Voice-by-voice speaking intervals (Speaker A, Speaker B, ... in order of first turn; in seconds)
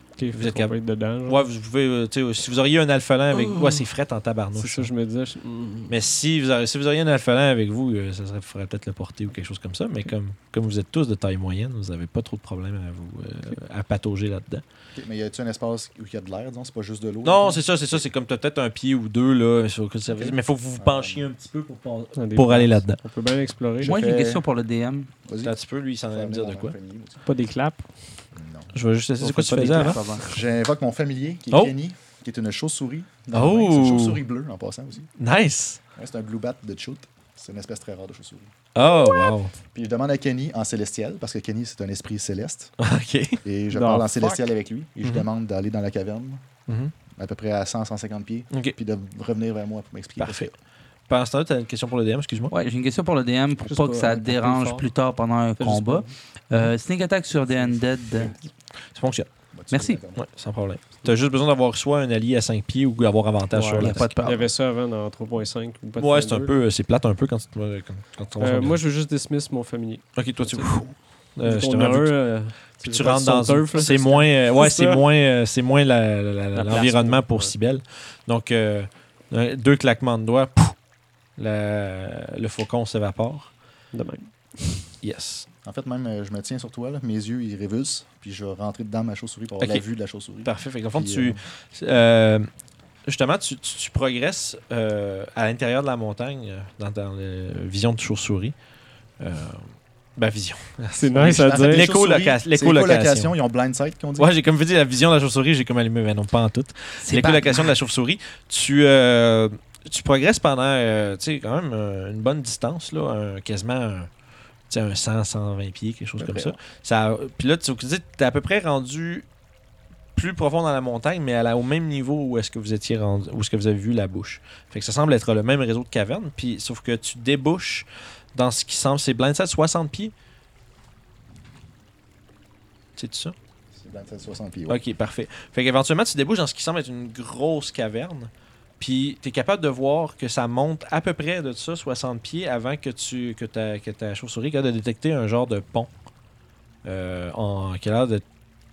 Speaker A: 0.2-1.5, 3.4-3.8, 4.5-6.0, 22.2-24.0, 27.2-27.9, 43.7-44.4, 53.6-54.9, 55.6-56.1, 63.5-66.6, 68.4-70.9, 71.4-75.0, 76.5-77.5, 83.9-84.9, 100.9-101.9
Speaker B: 0.3-0.8, 1.3-4.9, 5.9-14.6, 17.2-23.0, 25.4-26.8, 28.7-30.1, 33.3-34.2, 35.2-35.8, 38.8-39.5, 42.8-43.4, 46.7-46.9, 50.2-50.5, 51.1-52.5, 58.9-59.3, 60.1-64.1, 66.0-68.8, 70.2-72.2, 72.8-80.8, 81.4-83.5, 85.0-85.5, 89.6-89.8, 90.4-92.5, 93.1-98.5, 99.2-103.3, 104.2-114.1, 114.7-119.3, 120.2-130.1, 133.0-133.3, 134.7-145.9, 146.8-148.2
Speaker C: 15.0-18.0, 20.1-21.3, 23.8-24.4, 25.3-25.6, 26.1-27.2, 28.4-28.7, 30.2-35.1, 36.0-38.5, 39.7-42.7, 43.4-46.4, 47.2-50.5, 59.5-60.3, 64.0-64.5, 85.6-91.4, 101.2-104.3, 116.2-116.6, 133.8-134.8
Speaker D: 23.8-25.1, 29.2-30.3, 52.5-58.4, 59.7-60.0, 63.8-64.5, 107.0-107.7